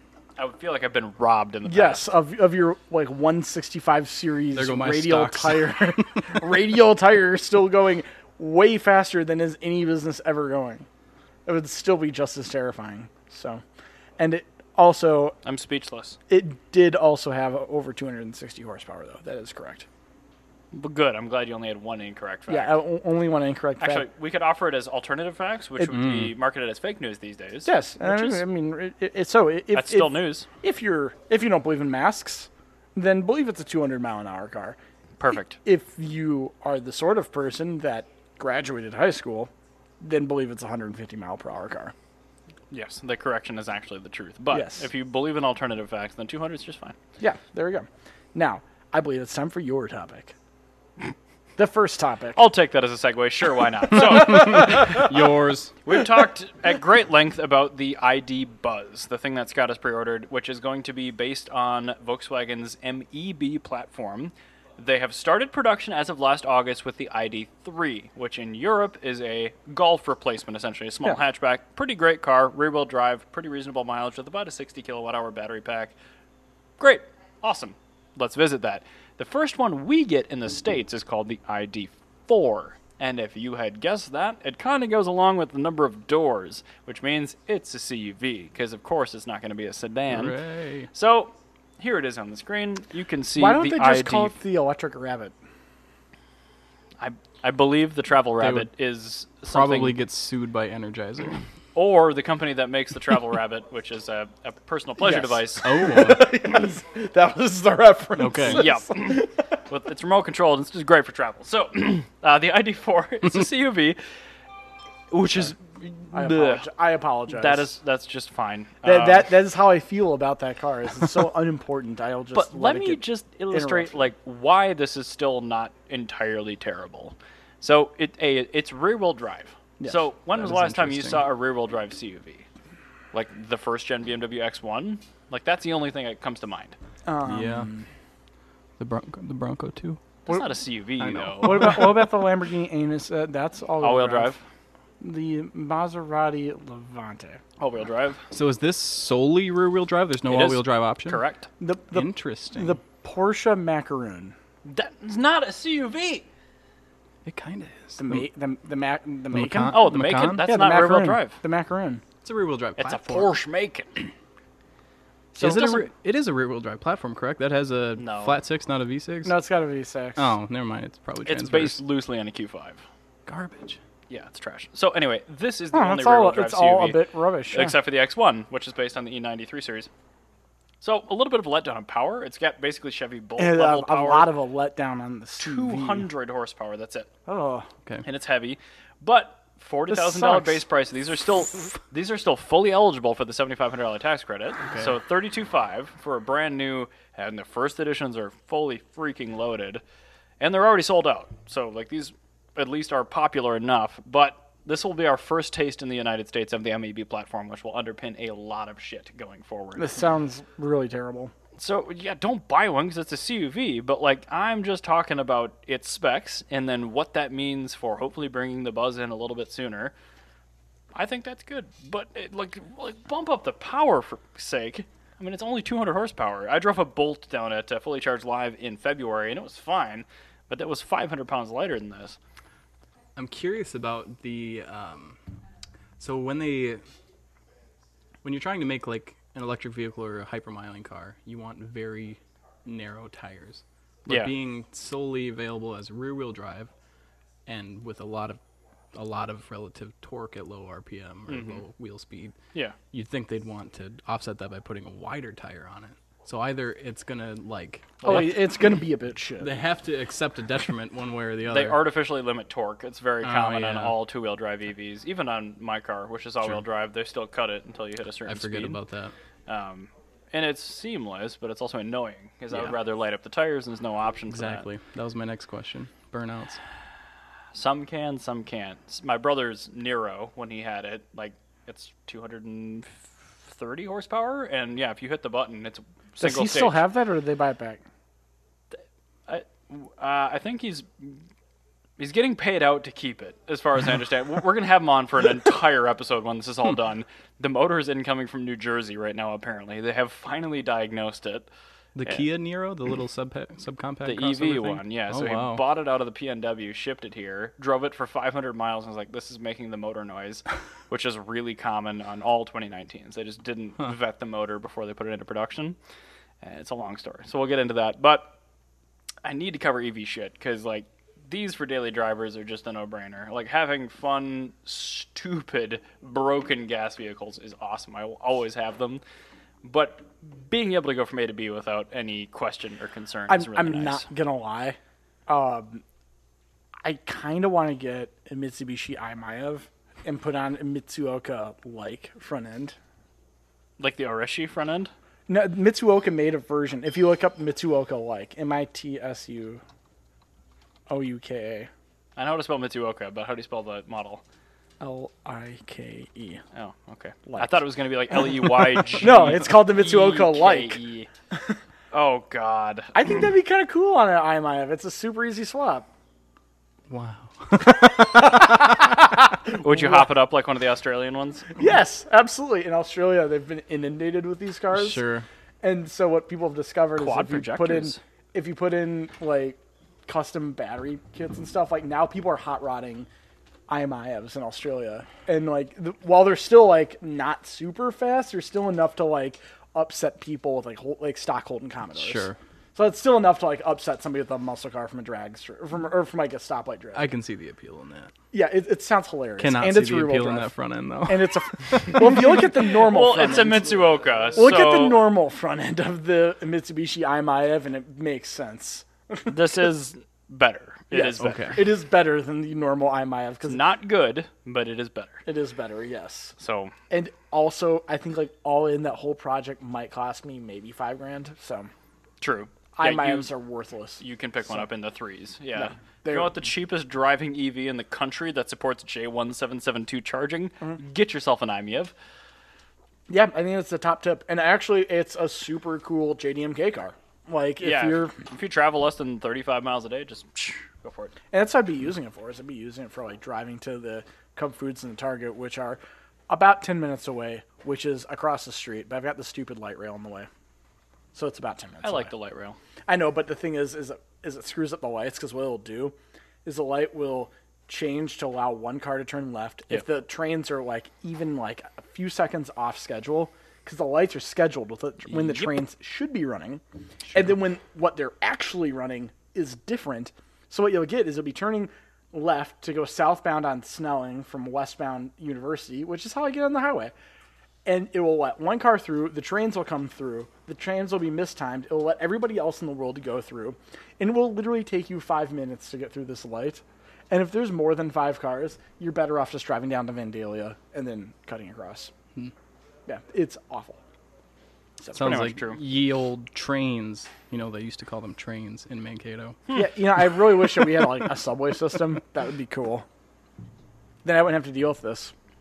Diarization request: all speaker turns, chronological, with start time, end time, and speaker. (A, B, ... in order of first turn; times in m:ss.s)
0:00.4-0:02.1 A
0:01.6-0:10.9 B
0:04.5-0:06.5 C
0:11.4-0:13.6 B
0:14.2-0:15.4 B
0:15.4-0:16.2 A
0:16.3-0:19.9 B
0:20.7-0:22.8 A
0:22.5-0:24.0 B
0:23.8-0:28.4 A
0:25.9-0:26.3 C
0:27.6-0:34.8 B
0:29.7-0:30.5 A
0:35.2-0:35.6 A
0:35.6-0:41.9 B
0:42.7-0:47.0 A
0:44.5-0:44.9 B
0:47.2-0:50.3 B
0:51.6-0:52.4 B
0:52.4-0:55.1 A
0:54.0-0:55.8 C
0:55.8-1:15.9 A
1:16.8-1:30.4 A
1:30.1-1:30.9 C
1:30.9-1:34.3 A
1:33.4-1:35.3 B
1:37.0-1:40.0 A
1:38.4-1:38.7 C
1:39.5-1:41.4 C
1:41.7-1:45.8 A
1:45.0-1:49.3 B
1:45.6-1:46.4 C
1:48.2-1:48.6 C
1:48.5-1:54.0 A
1:55.1-1:56.7 A
1:56.1-1:57.7 B
1:57.3-1:59.3 A
1:58.8-2:04.0 B
2:02.3-2:12.5 A
2:09.8-2:10.0 B
2:10.3-2:11.3 C
2:13.1-2:16.8 A
2:17.0-2:17.9 B
2:17.2-2:17.7 C
2:18.8-2:20.0 C
2:20.2-2:21.8 A
2:21.0-2:22.0 C
2:21.4-2:24.4 B
2:23.8-2:24.4 A
2:25.0-2:27.4 B
2:27.6-2:28.2 A
2:28.3-2:31.2 C
2:30.3-2:31.5 A
2:31.6-2:34.3 B
2:31.9-2:32.8 C
2:34.6-2:36.3 A
2:37.2-2:38.2 C
2:38.0-2:39.8 B
2:39.3-2:40.4 C
2:39.7-2:41.4 A
2:40.3-2:42.0 B
2:42.2-2:43.4 C
2:42.8-2:44.1 A
2:45.4-2:45.9 A
2:45.4-2:49.4 C
2:48.0-2:48.3 A
2:49.2-2:50.3 B
2:50.2-2:51.8 C
2:51.2-2:52.8 A
2:53.3-2:53.8 C
2:54.1-2:59.9 A
2:55.7-2:57.8 B
3:00.8-3:04.3 A
3:03.4-3:06.1 B
3:05.4-3:07.1 A
3:07.3-3:07.7 B
3:08.0-3:19.8 A
3:09.9-3:10.6 B
3:20.4-3:29.9 A
3:29.8-3:31.3 B
3:31.6-3:39.9 A
3:40.9-3:52.2 A
3:53.2-3:55.2 C
3:56.0-3:56.8 C
3:58.2-4:06.7 C
4:04.1-4:04.3 A
4:07.5-4:08.4 C
4:08.9-4:12.3 C
4:11.3-4:11.6 A
4:12.9-4:18.6 C
4:18.0-4:19.5 B
4:19.4-4:21.8 C
4:21.5-4:28.8 A
4:23.2-4:24.0 C
4:28.2-4:29.1 C
4:29.5-4:34.7 A
4:34.3-4:36.6 C
4:37.5-4:46.8 A
4:46.2-4:47.8 B
4:48.7-4:51.2 A
4:52.0-5:01.5 A
5:02.0-5:05.6 C
5:04.0-5:15.8 A
5:16.4-5:18.4 A
5:19.2-5:29.0 A
5:29.6-5:34.1 A
5:33.3-5:35.8 B
5:36.8-5:42.8 B
5:43.8-5:44.9 A
5:45.3-5:49.6 B
5:50.9-5:51.7 B
5:52.2-5:54.2 A
5:54.8-5:56.4 B
5:56.5-6:01.1 A
5:57.3-6:00.8 B
6:01.9-6:03.3 A
6:02.9-6:05.9 B
6:06.9-6:08.2 C
6:07.6-6:10.1 B
6:09.5-6:11.5 A
6:11.6-6:15.0 B
6:14.7-6:15.2 C
6:15.6-6:23.1 B
6:17.0-6:18.0 A
6:23.7-6:37.1 B
6:32.0-6:32.4 C
6:36.9-6:38.1 C
6:38.3-6:40.5 B
6:39.4-6:42.5 C
6:41.0-6:49.4 B
6:42.8-6:45.1 A
6:49.3-6:51.5 A
6:50.9-6:53.6 B
6:51.2-6:51.6 C
6:53.4-6:55.2 A
6:55.2-6:56.3 B
6:56.4-6:56.7 A
6:56.9-7:01.7 B
7:02.2-7:03.3 A
7:02.7-7:04.0 B
7:04.0-7:11.9 A
7:05.5-7:06.4 B
7:13.1-7:18.1 B
7:17.6-7:21.1 A
7:21.3-7:30.3 B
7:31.1-7:32.1 B
7:31.8-7:32.6 A
7:32.9-7:56.9 B
7:45.1-7:45.5 A
7:57.6-8:11.9 B
8:12.9-8:13.8 B
8:14.8-8:15.2 B
8:14.9-8:19.4 C
8:15.0-8:15.6 A
8:19.5-8:22.8 B
8:24.0-8:25.1 B